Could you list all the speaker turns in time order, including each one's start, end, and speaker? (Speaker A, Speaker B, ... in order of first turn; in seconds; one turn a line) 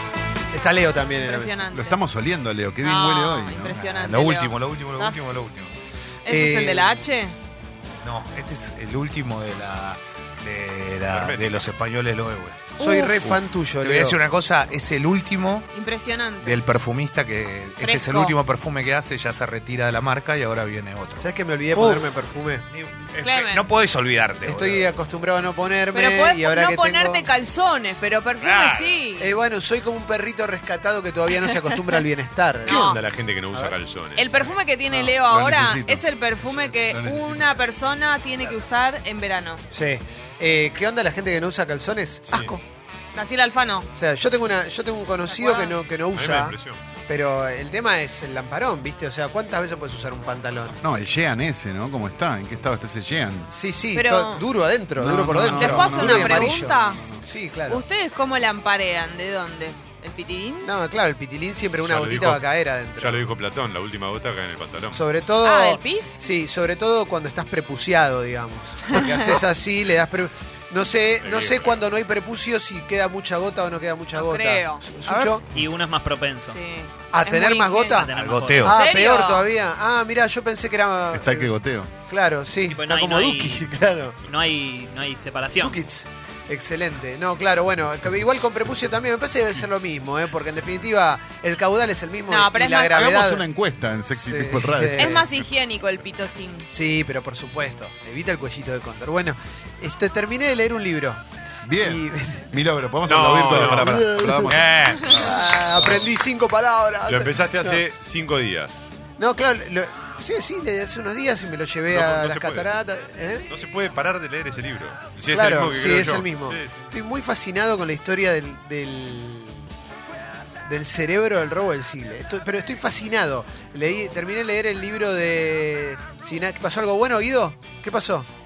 Speaker A: 0.5-1.6
Speaker B: 1.1-2.0
Speaker C: 1.7-3.8
Speaker B: 2.8-5.4
Speaker D: 3.7-5.7
Speaker B: 6.2-7.3
Speaker A: 6.3-7.0
Speaker D: 8.0-15.7
Speaker E: 11.1-11.7
Speaker B: 12.8-13.2
Speaker A: 12.8-14.2
Speaker B: 15.7-16.6
Speaker D: 16.4-22.2
Speaker B: 17.8-18.4
Speaker A: 21.2-22.6
Speaker D: 22.7-24.9
Speaker B: 23.2-23.7
Speaker A: 24.4-27.3
Speaker B: 25.9-29.3
Speaker D: 28.4-29.0
Speaker A: 29.2-33.0
Speaker B: 32.6-33.0
Speaker E: 32.7-34.5
Speaker B: 34.2-39.6
Speaker C: 34.9-37.6
Speaker A: 39.7-42.6
Speaker B: 43.1-43.9
Speaker A: 44.0-46.5
Speaker B: 45.3-45.8
Speaker E: 46.1-46.8
Speaker A: 47.1-50.8
Speaker C: 50.8-53.5
Speaker A: 53.5-57.9
Speaker B: 54.0-54.4
Speaker C: 55.0-57.2
Speaker B: 55.4-57.1
Speaker B: 57.7-60.7
Speaker A: 60.6-63.3
Speaker E: 61.8-62.4
Speaker E: 63.0-65.0
Speaker A: 64.9-75.4
Speaker B: 65.4-66.2
Speaker E: 71.2-71.8
Speaker B: 74.2-74.9
Speaker F: 75.0-76.6
Speaker B: 76.5-78.1
Speaker A: 77.1-81.5
Speaker F: 78.0-78.7
Speaker D: 78.1-78.7
Speaker B: 78.6-79.5
Speaker C: 81.1-81.9
Speaker A: 82.1-84.2
Speaker F: 82.7-83.7
Speaker F: 84.3-85.8
Speaker A: 85.6-93.4
Speaker B: 92.3-93.1
Speaker C: 92.9-95.3
Speaker A: 94.2-95.3
Speaker B: 95.0-96.7
Speaker A: 96.7-101.2
Speaker C: 101.6-105.9
Speaker A: 101.8-102.5
Speaker E: 103.0-103.9
Speaker A: 103.7-104.5
Speaker D: 104.5-105.4
Speaker A: 105.1-107.8
Speaker E: 107.0-108.8
Speaker A: 109.2-113.5
Speaker E: 111.9-112.7
Speaker E: 113.5-116.8
Speaker A: 115.3-119.7
Speaker A: 120.7-128.3